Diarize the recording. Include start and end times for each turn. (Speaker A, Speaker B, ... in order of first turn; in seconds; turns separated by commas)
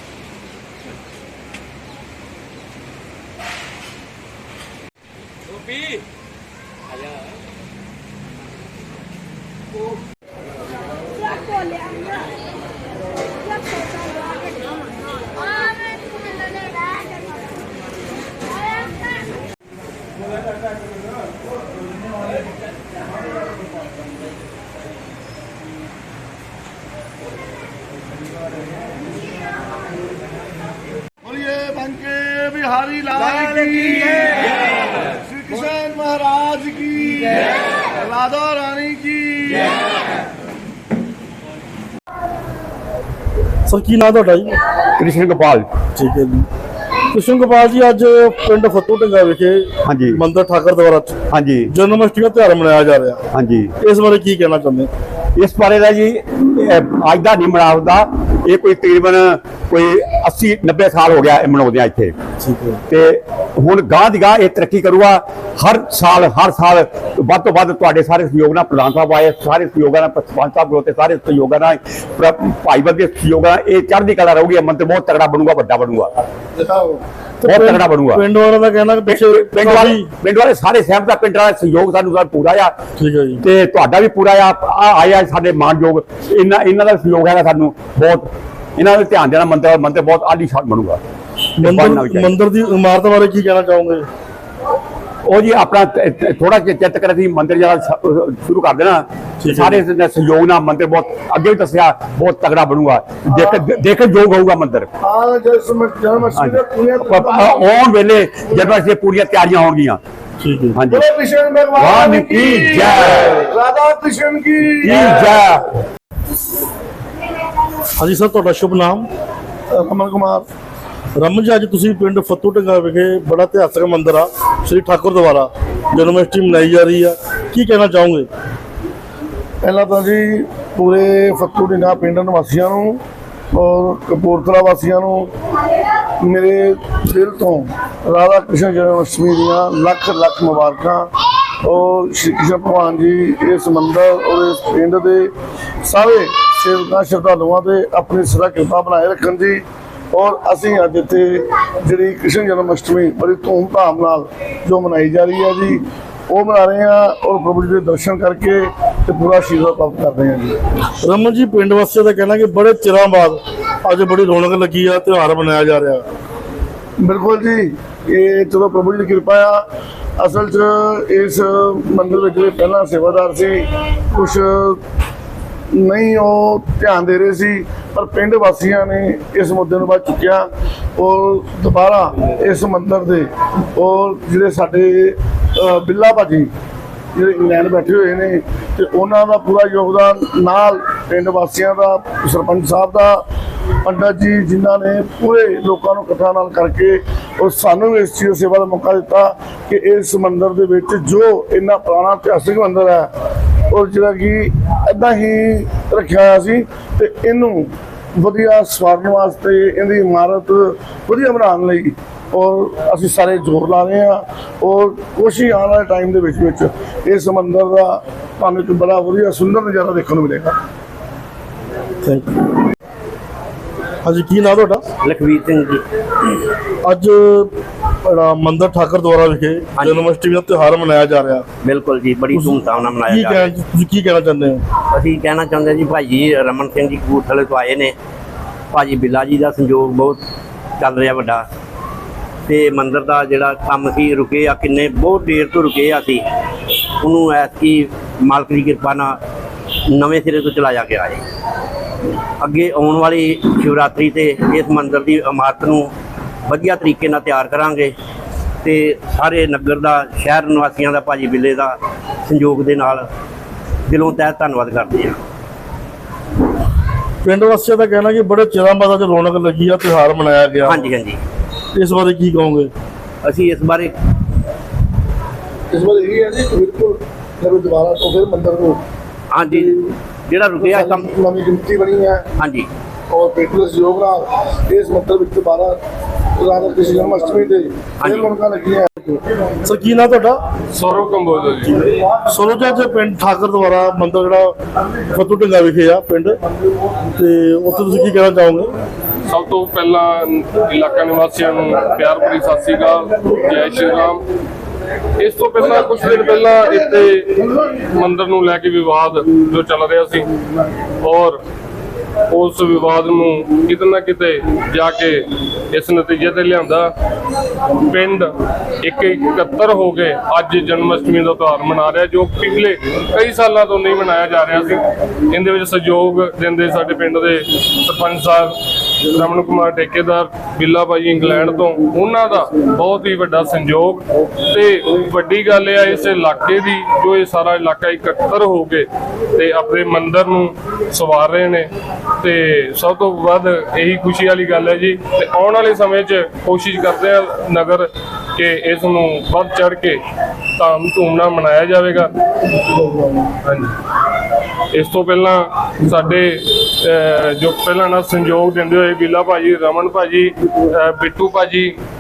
Speaker A: 31.2-34.5, Speaker A: 35.1-39.8, Speaker B: 43.7-44.6, Speaker C: 45.0-45.7, Speaker B: 46.0-46.5, Speaker B: 47.1-51.2, Speaker C: 49.9-50.2, Speaker C: 51.3-51.7, Speaker B: 51.7-53.2, Speaker C: 53.3-53.7, Speaker B: 53.8-54.9, Speaker C: 55.4-62.1, Speaker B: 62.4-62.8, Speaker C: 62.9-76.1, Speaker A: 76.6-77.0, Speaker B: 77.4-80.1, Speaker C: 77.4-78.2, Speaker C: 79.1-82.8, Speaker B: 83.0-83.4, Speaker C: 83.4-91.0, Speaker B: 91.6-94.1, Speaker C: 91.6-92.3, Speaker C: 95.2-104.9, Speaker B: 99.4-99.8, Speaker A: 103.3-103.7, Speaker A: 105.0-107.8, Speaker C: 106.4-110.0, Speaker A: 108.5-108.8, Speaker B: 110.4-110.8, Speaker C: 110.8-111.0, Speaker A: 110.9-115.4, Speaker C: 111.8-113.4, Speaker C: 114.8-115.7, Speaker B: 118.0-119.1, Speaker A: 119.7-120.5, Speaker B: 121.2-128.3, Speaker A: 129.6-133.0, Speaker A: 133.5-135.3, Speaker A: 136.2-141.1, Speaker A: 141.6-145.3, Speaker A: 145.8-160.6, Speaker B: 161.0-166.1, Speaker A: 167.0-169.6, Speaker A: 170.2-174.8, Speaker A: 175.7-180.5, Speaker A: 181.0-186.5, Speaker A: 187.2-193.2, Speaker A: 193.8-203.1, Speaker A: 203.7-220.6, Speaker B: 222.0-222.5, Speaker B: 224.0-224.8, Speaker D: 225.0-225.8, Speaker B: 226.8-227.5, Speaker B: 228.1-231.5, Speaker D: 231.6-233.4, Speaker B: 232.3-234.6, Speaker D: 234.9-237.9, Speaker D: 238.7-240.2, Speaker D: 240.8-241.5, Speaker D: 242.5-246.2, Speaker D: 247.0-249.2, Speaker D: 249.9-251.2, Speaker D: 252.4-255.9, Speaker D: 256.5-257.9, Speaker D: 258.6-263.1, Speaker D: 263.9-265.2, Speaker B: 267.2-270.9, Speaker D: 270.7-271.2, Speaker B: 271.8-272.7, Speaker D: 273.2-273.9, Speaker A: 275.7-278.8, Speaker D: 279.3-279.7, Speaker A: 279.5-279.9, Speaker D: 280.3-281.0, Speaker A: 280.6-282.2, Speaker D: 282.4-282.7, Speaker A: 283.1-285.8, Speaker A: 286.4-289.2, Speaker B: 289.6-290.4, Speaker E: 290.7-291.9, Speaker B: 292.3-296.4, Speaker B: 297.1-298.7, Speaker E: 299.3-304.3, Speaker E: 305.2-310.3, Speaker E: 311.0-311.4, Speaker E: 312.3-316.9, Speaker E: 317.8-341.7, Speaker E: 342.2-350.0, Speaker E: 350.6-352.1, Speaker A: 352.8-353.3, Speaker E: 353.4-353.7, Speaker E: 354.7-361.8